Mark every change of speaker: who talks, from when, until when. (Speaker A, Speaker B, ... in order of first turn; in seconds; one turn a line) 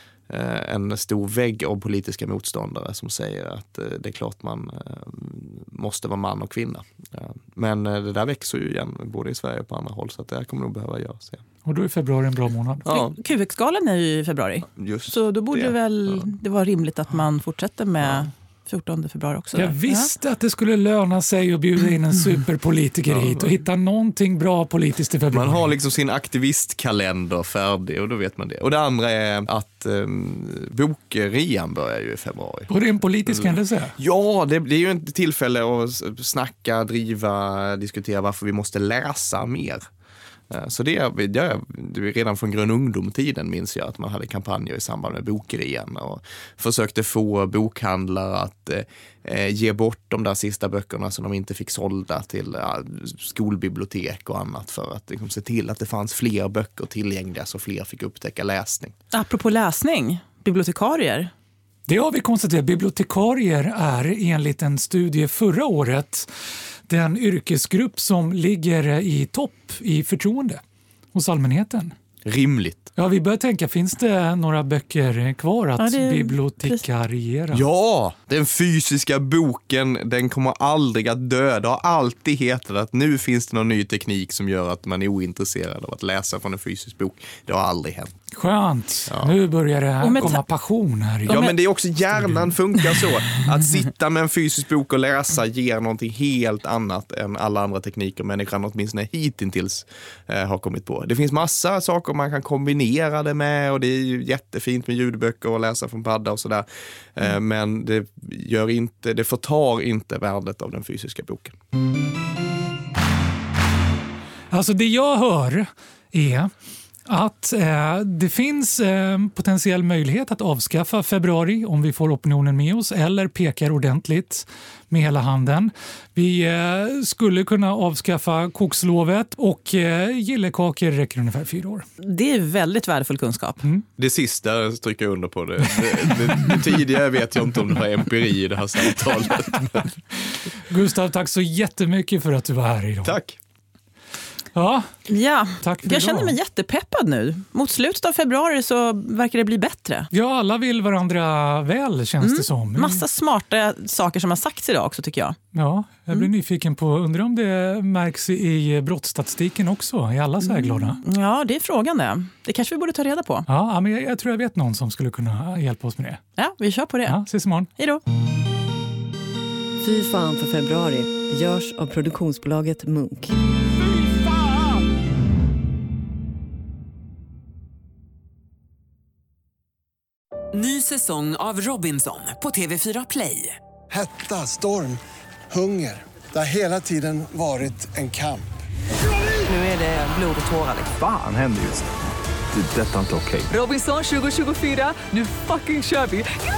Speaker A: 0.3-11.4
Speaker B: 11.6-12.9
Speaker A: 12.9-13.2
Speaker C: 12.9-20.1
Speaker A: 14.7-16.3
Speaker B: 19.5-25.7
Speaker A: 23.1-23.5
Speaker A: 25.3-32.7
Speaker B: 32.7-33.9
Speaker A: 33.2-39.8
Speaker A: 40.5-58.9
Speaker C: 59.1-61.3
Speaker B: 61.9-66.3
Speaker B: 66.9-70.6
Speaker B: 71.1-72.0
Speaker A: 72.2-72.9
Speaker B: 73.0-77.7
Speaker C: 75.8-76.8
Speaker A: 77.5-88.2
Speaker B: 88.3-91.5
Speaker A: 89.1-89.3
Speaker C: 90.0-90.4
Speaker C: 91.3-91.5
Speaker A: 91.3-111.5
Speaker C: 92.8-93.0
Speaker B: 114.5-116.5
Speaker B: 117.1-131.9
Speaker C: 132.0-133.6
Speaker A: 134.0-139.9
Speaker B: 140.7-143.2
Speaker A: 143.0-143.4
Speaker B: 144.5-144.9
Speaker C: 145.1-150.1
Speaker B: 145.6-146.3
Speaker B: 150.1-153.0
Speaker C: 152.2-155.4
Speaker B: 155.5-161.0
Speaker C: 160.4-163.4
Speaker B: 163.5-166.2
Speaker C: 166.4-167.2
Speaker B: 167.0-167.7
Speaker D: 169.8-173.3
Speaker E: 180.5-183.6
Speaker F: 183.9-185.0
Speaker F: 185.5-188.6
Speaker E: 189.4-190.9
Speaker G: 190.9-191.9
Speaker G: 192.5-193.5
Speaker E: 193.5-196.3